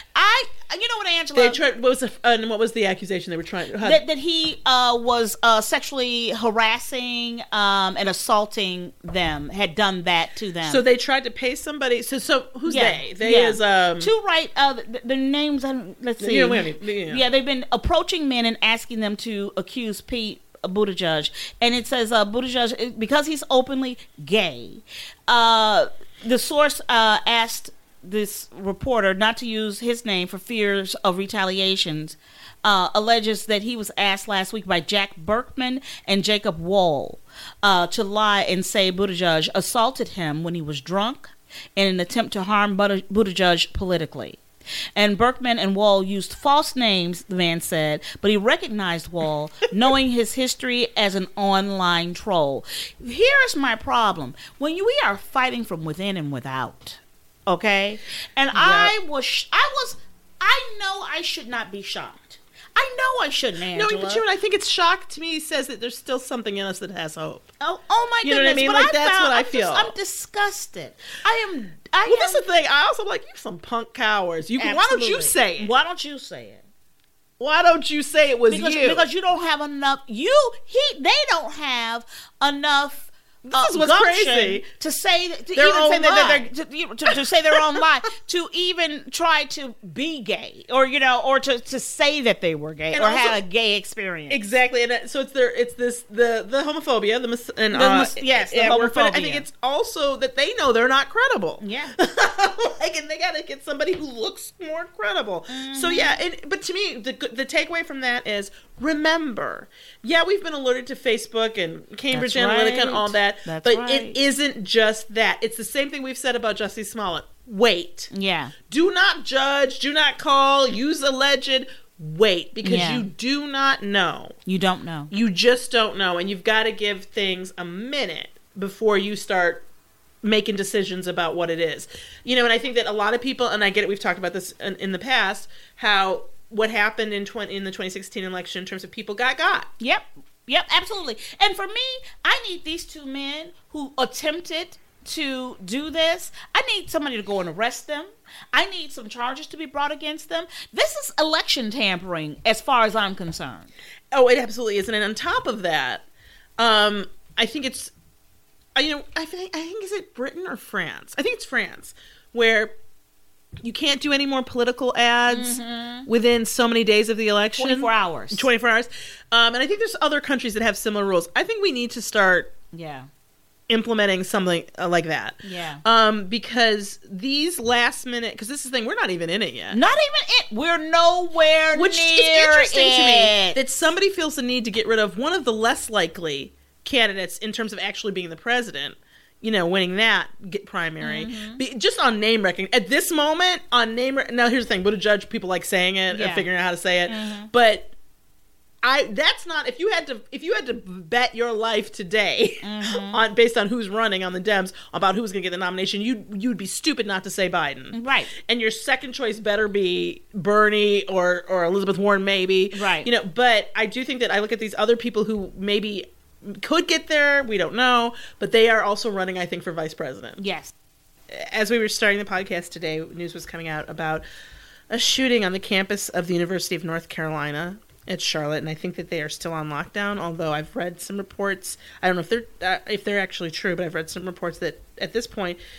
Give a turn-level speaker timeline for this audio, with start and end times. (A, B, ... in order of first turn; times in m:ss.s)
0:00.1-0:01.6 A
0:01.4-0:04.0 B
0:03.8-0:10.8 A
0:10.6-0:14.1 B
0:12.7-0:44.4 A
0:16.2-0:17.2 B
0:45.0-1:04.2 A
0:58.5-0:58.9 B
1:03.7-1:07.5 B
1:07.6-1:12.4 A
1:08.2-1:09.9 B
1:12.0-1:15.7 B
1:14.6-1:16.6 A
1:17.4-1:19.0 B
1:18.5-1:34.4 A
1:23.4-1:24.6 B
1:25.5-1:26.5 B
1:32.9-1:33.4 B
1:34.3-1:58.1 B
1:37.7-1:39.4 A
1:41.6-1:41.9 A
1:45.5-1:46.2 A
1:52.1-1:54.2 A
1:58.1-1:58.5 A
1:58.7-2:04.4 B
2:02.6-2:03.1 A
2:04.4-2:05.1 A
2:05.1-2:09.6 B
2:10.2-2:19.7 B
2:19.8-2:33.7 A
2:34.1-2:36.0 B
2:36.6-2:37.9 B
2:38.7-2:42.7 B
2:43.6-2:52.5 B
2:45.3-2:46.1 A
2:47.6-2:48.5 A
2:52.7-2:53.1 A
2:53.7-2:59.8 B
2:55.4-2:55.8 A
2:59.7-3:03.6 A
3:01.7-3:17.9 B
3:11.0-3:11.6 A
3:16.1-3:16.4 A
3:17.1-3:17.5 A
3:18.8-3:40.4 B
3:22.6-3:23.2 A
3:27.9-3:28.3 A
3:32.7-3:33.1 A
3:40.4-3:40.7 A
3:41.3-3:44.2 B
3:44.9-3:55.6 B